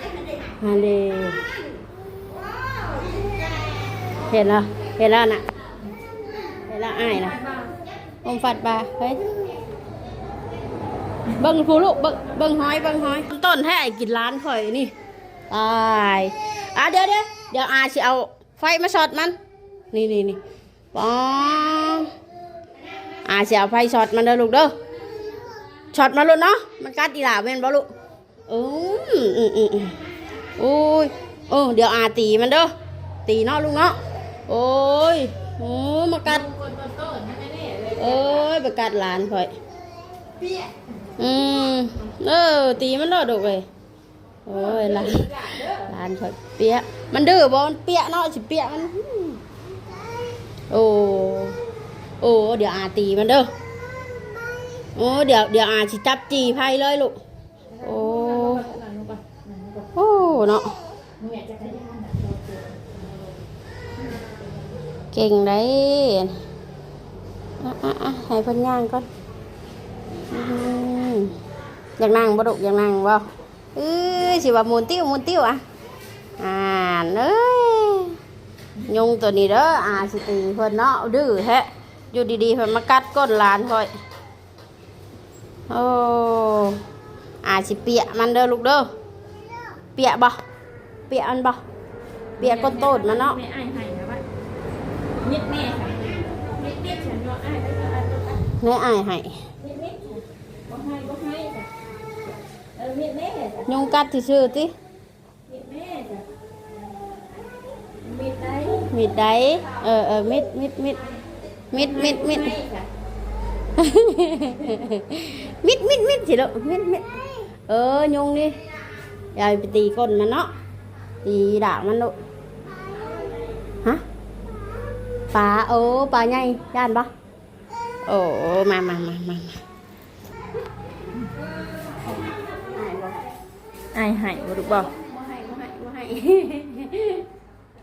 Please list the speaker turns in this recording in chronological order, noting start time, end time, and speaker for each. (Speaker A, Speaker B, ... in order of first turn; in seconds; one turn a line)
Speaker A: 0.6-1.4
Speaker A: 4.3-5.4
Speaker A: 6.7-7.3
Speaker B: 7.0-7.7
Speaker A: 8.2-9.2
Speaker A: 11.3-14.9
Speaker A: 15.5-19.4
Speaker A: 19.9-20.4
Speaker A: 20.9-22.1
Speaker A: 23.2-24.7
Speaker A: 25.9-27.9
Speaker A: 28.5-29.9
Speaker A: 30.6-32.7
Speaker A: 33.2-34.0
Speaker A: 34.5-36.5
Speaker B: 36.2-38.5
Speaker A: 38.0-39.5
Speaker B: 40.4-40.7
Speaker A: 41.2-43.6
Speaker A: 44.5-45.3
Speaker B: 44.5-45.9
Speaker A: 45.8-49.4
Speaker A: 50.7-51.5
Speaker A: 52.2-53.5
Speaker A: 55.0-57.1
Speaker B: 57.7-59.9
Speaker A: 57.8-58.7
Speaker A: 59.9-60.7
Speaker B: 61.2-63.3
Speaker B: 64.0-64.4
Speaker A: 65.1-66.3
Speaker A: 67.6-69.1
Speaker A: 70.3-71.3
Speaker A: 72.0-75.6
Speaker A: 76.4-78.2
Speaker A: 78.9-83.9
Speaker A: 85.7-86.8
Speaker A: 87.4-88.9
Speaker A: 90.0-90.4
Speaker A: 91.1-91.6
Speaker B: 92.4-94.2
Speaker A: 92.4-93.4
Speaker B: 95.2-98.4
Speaker A: 98.6-99.4
Speaker B: 99.6-101.7
Speaker B: 102.7-103.7
Speaker A: 103.7-104.7
Speaker B: 105.5-106.2
Speaker B: 108.0-108.9
Speaker A: 108.9-111.0
Speaker A: 111.7-112.5
Speaker B: 111.7-112.9
Speaker A: 113.8-117.1
Speaker A: 117.7-118.6
Speaker A: 119.3-120.5
Speaker A: 121.2-122.1
Speaker A: 125.3-127.1
Speaker A: 128.1-129.6
Speaker A: 132.0-133.2
Speaker B: 133.9-134.9
Speaker A: 134.7-137.2